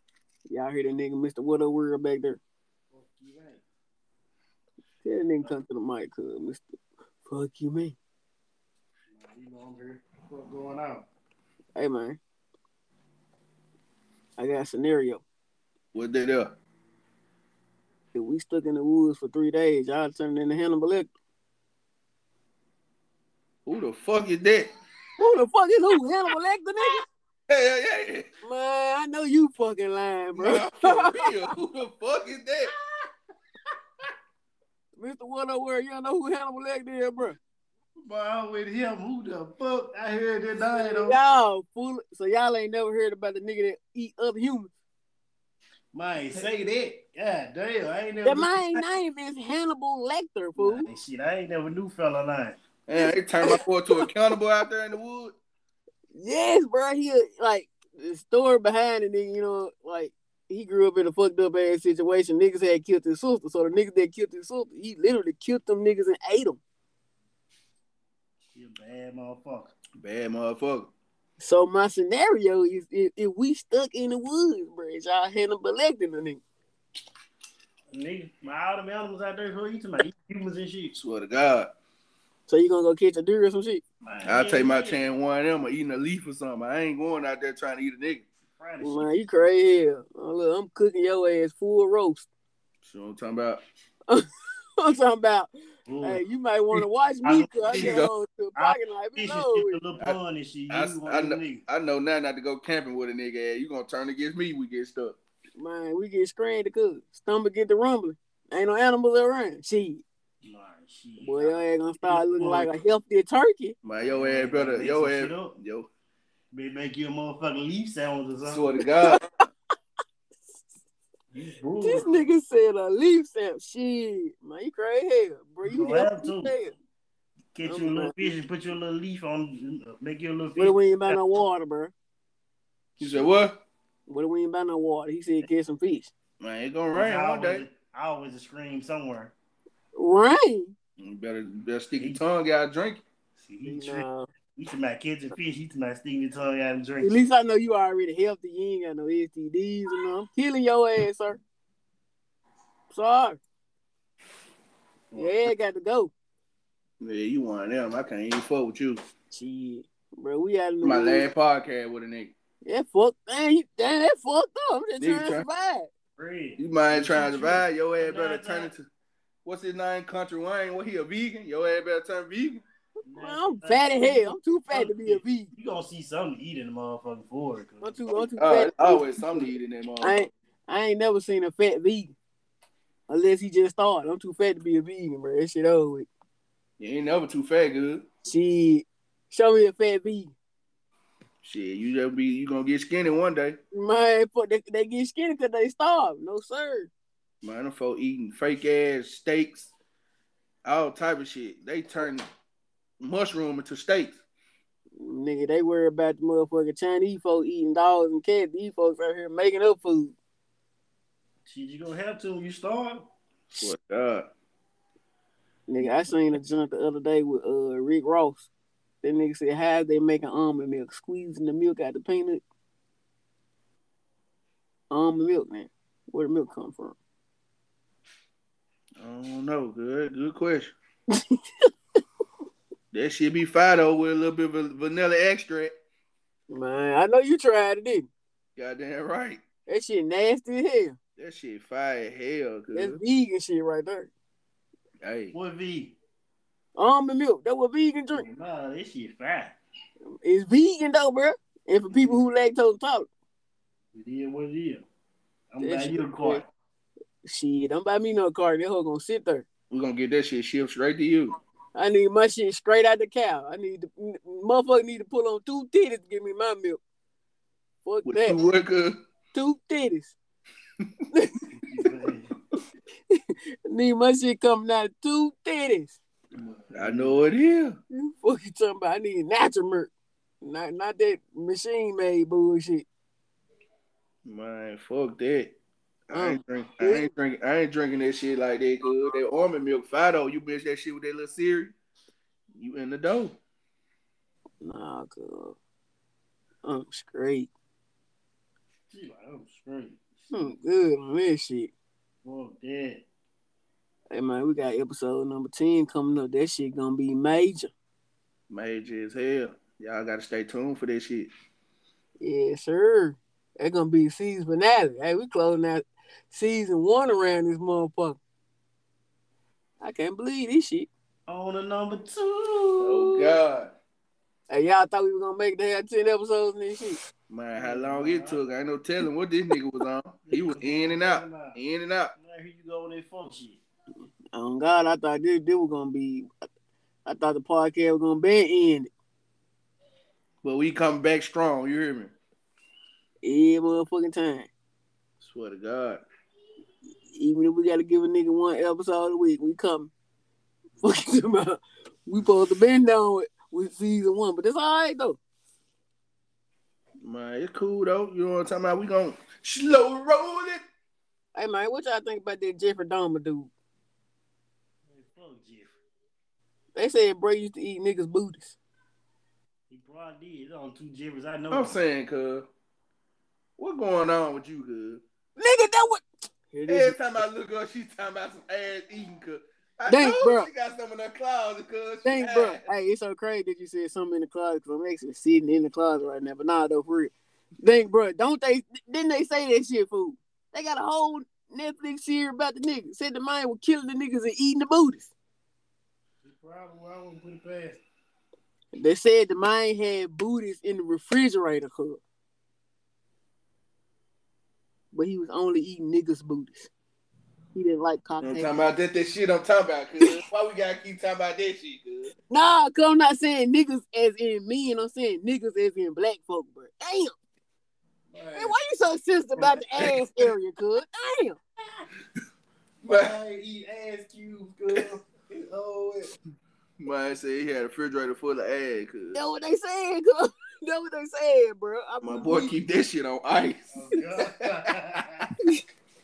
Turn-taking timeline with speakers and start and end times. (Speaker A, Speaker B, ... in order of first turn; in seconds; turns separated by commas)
Speaker A: 0.5-2.4, Speaker B: 2.9-3.6, Speaker A: 5.0-6.6, Speaker A: 7.3-8.0, Speaker B: 9.1-11.1, Speaker A: 11.8-12.2, Speaker A: 14.4-15.2, Speaker C: 15.9-16.5, Speaker A: 18.1-21.1, Speaker C: 23.7-24.7, Speaker A: 25.2-27.1, Speaker C: 27.5-28.3, Speaker A: 28.4-31.4, Speaker C: 30.3-32.7, Speaker A: 35.0-37.4, Speaker B: 38.0-41.2, Speaker A: 40.6-44.7, Speaker B: 45.9-48.6, Speaker A: 48.2-50.9, Speaker B: 50.6-52.6, Speaker C: 52.9-55.4, Speaker A: 53.0-54.1, Speaker A: 56.1-66.6, Speaker B: 68.5-69.7, Speaker C: 70.0-70.9, Speaker A: 71.4-76.4, Speaker B: 77.9-81.0, Speaker C: 80.9-81.7, Speaker A: 82.5-83.8, Speaker B: 84.0-85.0, Speaker C: 84.2-88.2, Speaker B: 88.6-89.1, Speaker A: 88.8-92.3, Speaker C: 92.8-93.6, Speaker A: 94.8-95.5, Speaker B: 95.9-96.2, Speaker A: 96.0-99.8, Speaker B: 97.2-97.9, Speaker C: 97.7-98.1, Speaker B: 98.6-101.7, Speaker C: 100.7-105.2, Speaker A: 105.6-110.0, Speaker B: 110.4-112.7, Speaker A: 111.2-113.8, Speaker C: 113.8-115.9, Speaker B: 114.0-115.6, Speaker B: 116.5-118.7, Speaker C: 118.5-119.2, Speaker A: 118.9-119.2, Speaker B: 121.3-122.2, Speaker A: 121.8-126.7, Speaker B: 125.7-126.5, Speaker B: 127.5-131.2, Speaker A: 127.6-128.2, Speaker A: 130.6-131.9, Speaker B: 133.0-133.3, Speaker C: 133.0-133.6, Speaker A: 134.1-136.1, Speaker C: 136.4-137.6, Speaker B: 136.9-139.3, Speaker A: 139.9-140.7, Speaker C: 141.0-143.0, Speaker B: 143.4-147.2, Speaker A: 143.7-144.3, Speaker A: 147.0-151.4, Speaker A: 152.9-153.4, Speaker B: 155.1-155.4, Speaker A: 155.2-156.1, Speaker C: 157.0-159.0, Speaker A: 159.3-161.3, Speaker C: 160.8-162.3, Speaker A: 162.6-165.9, Speaker C: 165.0-165.4, Speaker B: 166.2-168.7, Speaker C: 166.6-168.9, Speaker C: 169.4-172.6, Speaker B: 173.1-178.0, Speaker A: 173.2-175.5, Speaker A: 177.8-179.5, Speaker C: 178.4-180.1, Speaker A: 180.0-182.2, Speaker A: 183.1-186.1, Speaker C: 186.8-188.1, Speaker A: 188.2-190.3, Speaker C: 191.4-193.6, Speaker A: 193.7-196.9, Speaker C: 197.4-199.7, Speaker C: 200.7-202.3, Speaker C: 203.0-204.2, Speaker A: 205.0-210.2, Speaker B: 211.5-213.1, Speaker C: 213.6-214.3, Speaker A: 215.7-218.5, Speaker B: 215.8-216.1, Speaker A: 219.0-222.4, Speaker A: 224.9-227.0, Speaker C: 229.0-230.8, Speaker A: 231.1-231.4, Speaker C: 232.9-235.7, Speaker A: 236.5-238.1, Speaker C: 238.6-239.4, Speaker A: 239.7-241.0, Speaker C: 241.2-243.0, Speaker A: 242.7-244.1, Speaker C: 245.0-245.3, Speaker B: 245.3-246.0, Speaker A: 246.8-248.3, Speaker B: 248.1-249.6, Speaker A: 250.2-253.1, Speaker B: 251.9-252.2, Speaker B: 253.9-254.9, Speaker B: 255.5-256.5, Speaker A: 255.6-256.4, Speaker A: 257.2-259.4, Speaker C: 259.7-261.3, Speaker A: 261.8-266.8, Speaker A: 267.9-268.4, Speaker C: 268.1-269.0, Speaker A: 269.3-270.1, Speaker B: 271.6-272.3, Speaker A: 273.1-276.0, Speaker B: 276.3-277.3, Speaker C: 276.7-277.8, Speaker A: 277.9-279.9, Speaker A: 280.4-282.9, Speaker C: 284.2-285.6, Speaker C: 286.1-291.8, Speaker A: 286.1-287.1, Speaker C: 292.6-293.4, Speaker A: 294.6-295.6, Speaker A: 296.6-297.5, Speaker B: 298.9-300.5, Speaker A: 300.3-301.7, Speaker B: 302.2-303.1, Speaker A: 304.1-307.7, Speaker C: 308.5-311.3, Speaker A: 312.2-318.2, Speaker A: 319.8-320.9, Speaker B: 321.3-323.4, Speaker C: 322.8-323.7, Speaker A: 324.5-327.0, Speaker C: 327.3-332.1, Speaker B: 327.6-328.4, Speaker B: 330.3-331.6, Speaker B: 332.2-333.6, Speaker A: 334.3-336.3, Speaker A: 337.1-338.9, Speaker C: 340.4-342.1, Speaker A: 343.2-344.5, Speaker C: 345.2-346.0, Speaker A: 347.1-349.9, Speaker A: 350.8-355.2, Speaker C: 357.0-360.6, Speaker A: 361.4-363.5, Speaker B: 364.9-365.8, Speaker A: 366.8-368.6, Speaker B: 369.7-371.8, Speaker C: 371.5-372.5, Speaker C: 373.6-375.0, Speaker A: 375.4-377.0, Speaker C: 376.7-382.6, Speaker A: 379.9-380.5, Speaker A: 382.1-395.1, Speaker B: 396.2-397.8, Speaker A: 398.7-402.0, Speaker A: 404.9-406.7, Speaker A: 407.6-408.7, Speaker C: 408.2-412.1, Speaker A: 412.3-417.1, Speaker B: 418.1-418.5, Speaker A: 418.4-421.4, Speaker C: 419.4-420.3, Speaker B: 422.8-426.1, Speaker C: 422.9-423.1, Speaker C: 426.8-429.2, Speaker A: 429.1-432.5, Speaker C: 432.0-434.5, Speaker B: 433.7-435.3